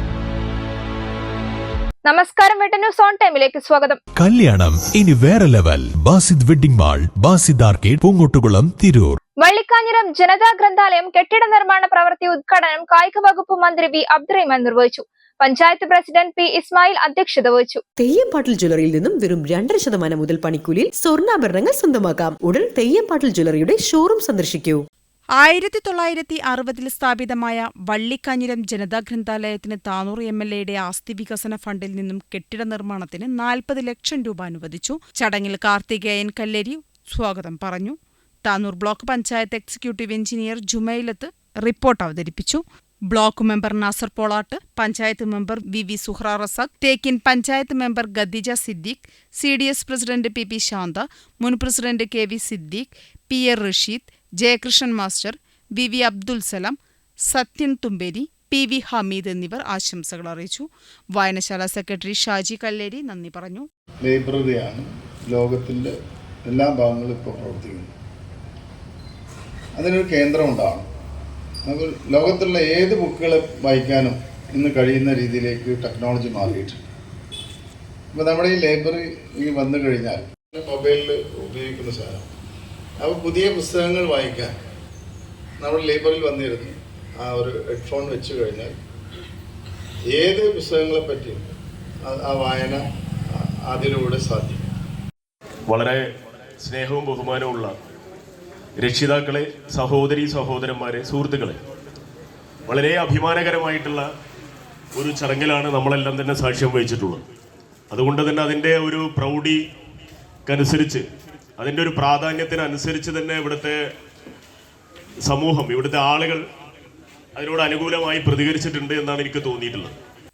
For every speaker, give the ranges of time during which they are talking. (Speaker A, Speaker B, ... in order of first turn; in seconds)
Speaker A: 2.0-4.0, 9.4-17.8
Speaker B: 4.2-9.2
Speaker C: 18.0-24.8
Speaker D: 25.4-63.7
Speaker E: 64.0-67.9, 69.8-70.9, 71.7-76.8, 78.1-82.3, 83.0-84.5, 85.6-88.8, 90.1-91.4, 92.0-94.7
Speaker F: 95.7-96.1, 96.6-97.7, 98.8-101.6, 102.7-104.1, 105.0-107.2, 107.9-109.6, 110.5-111.0, 111.6-113.8, 115.2-116.4, 117.4-119.9